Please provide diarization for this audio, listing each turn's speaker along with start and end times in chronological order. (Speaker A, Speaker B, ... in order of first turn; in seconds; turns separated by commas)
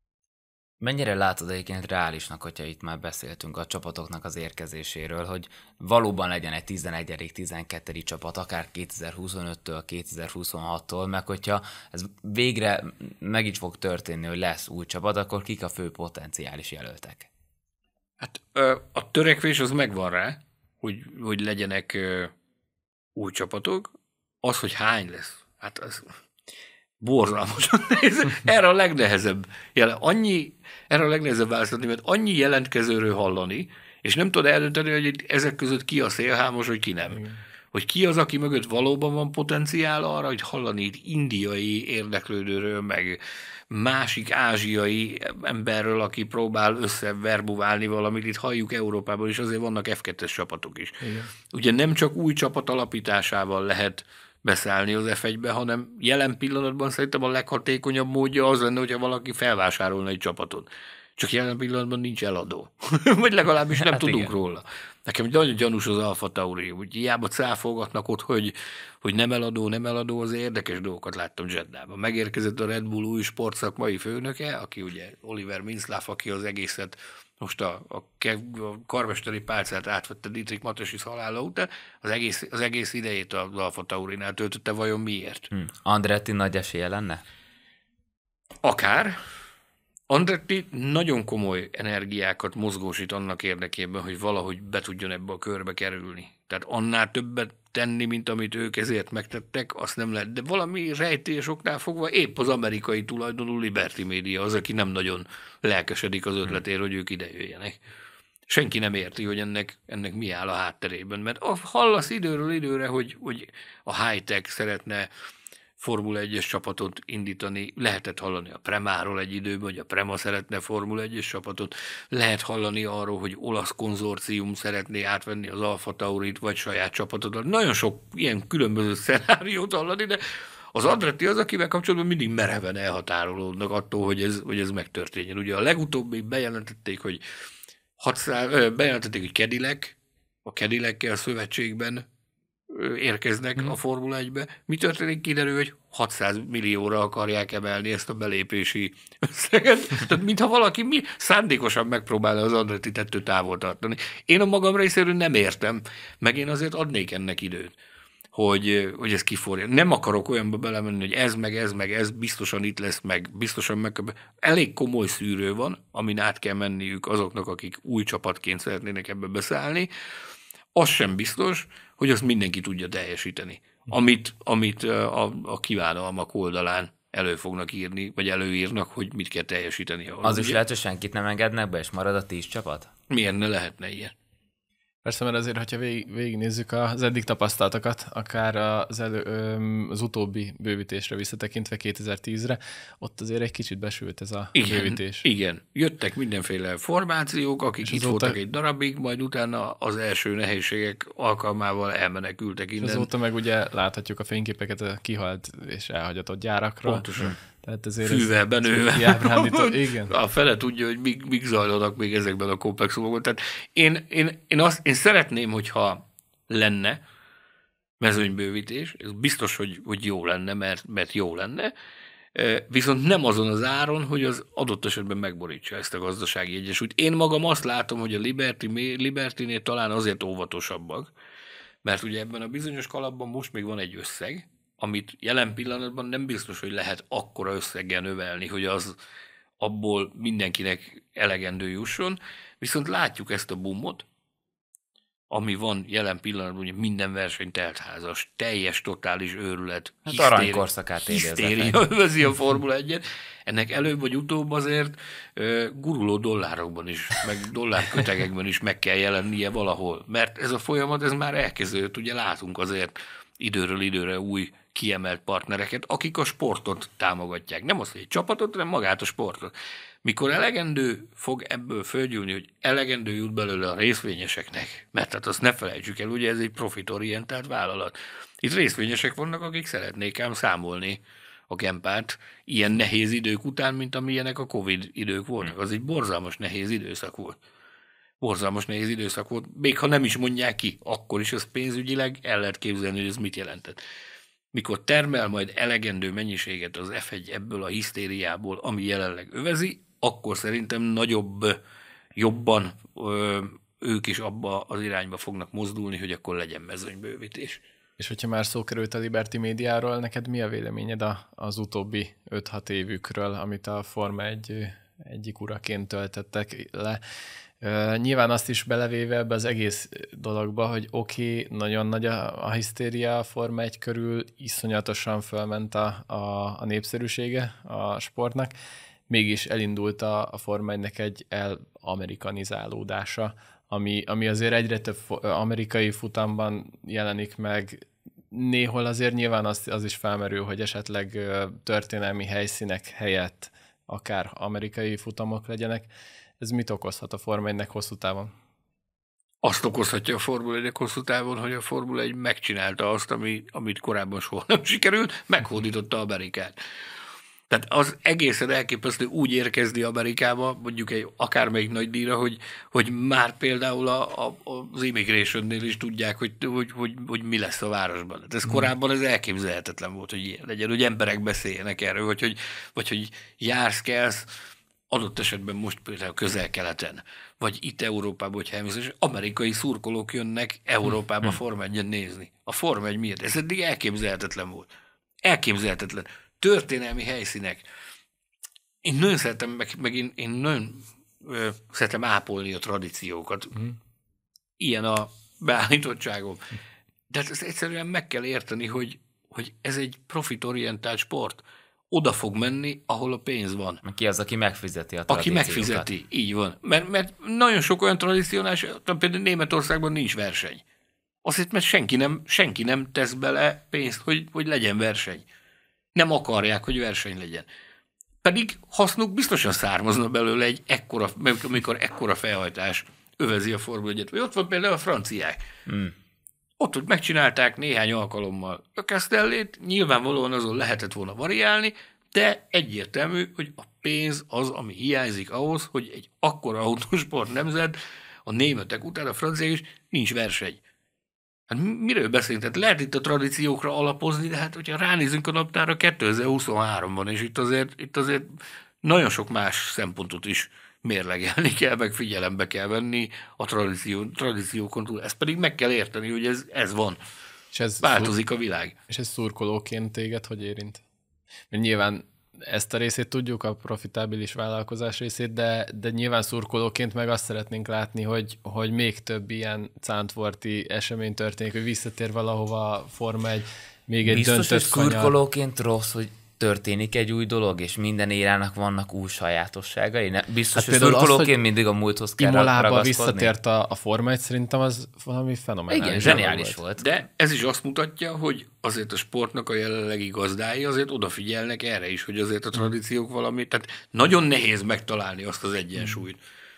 Speaker A: 0.8-17.3, Speaker B: 18.2-22.3, Speaker B: 23.2-23.9, Speaker B: 24.4-26.1, Speaker B: 27.0-37.2, Speaker C: 37.1-37.4, Speaker B: 37.7-43.2, Speaker B: 43.7-51.0, Speaker C: 51.0-51.3, Speaker B: 51.5-85.5, Speaker A: 63.8-64.3, Speaker A: 85.5-87.2, Speaker B: 88.6-89.2, Speaker B: 90.1-107.8, Speaker B: 108.5-115.1, Speaker B: 115.8-130.2, Speaker B: 130.7-137.2, Speaker B: 138.0-142.1, Speaker B: 142.7-157.8, Speaker B: 158.3-169.9, Speaker B: 170.8-180.6, Speaker A: 180.2-182.9, Speaker B: 183.1-184.1, Speaker C: 185.0-195.2, Speaker B: 194.6-203.1, Speaker C: 197.9-198.4, Speaker C: 202.8-207.1, Speaker B: 206.8-207.4, Speaker C: 207.6-210.2, Speaker B: 208.0-217.0, Speaker B: 218.0-221.7, Speaker B: 222.3-231.1, Speaker B: 231.8-239.0, Speaker B: 239.6-244.1, Speaker B: 245.3-269.5, Speaker A: 250.1-251.8, Speaker B: 270.0-287.4, Speaker B: 288.2-293.8, Speaker B: 294.5-301.6, Speaker B: 302.2-307.6, Speaker C: 308.0-317.0, Speaker C: 317.6-328.6, Speaker C: 329.1-345.9, Speaker C: 346.4-348.3, Speaker B: 349.4-356.6, Speaker B: 357.5-374.3, Speaker B: 374.9-384.7, Speaker B: 385.2-387.7, Speaker B: 388.8-393.7, Speaker B: 394.6-396.4, Speaker B: 397.1-403.8, Speaker A: 403.8-405.9, Speaker B: 405.1-410.6, Speaker B: 411.2-415.3, Speaker B: 415.9-417.5, Speaker B: 418.2-425.4, Speaker A: 425.7-425.9, Speaker B: 426.6-440.6, Speaker B: 441.5-448.3, Speaker B: 448.8-457.0, Speaker C: 457.5-458.1, Speaker B: 457.8-458.8, Speaker C: 458.9-460.8, Speaker C: 461.5-475.1, Speaker A: 474.0-483.3, Speaker C: 480.6-481.3, Speaker C: 482.2-486.6, Speaker A: 485.7-486.8, Speaker B: 486.8-496.2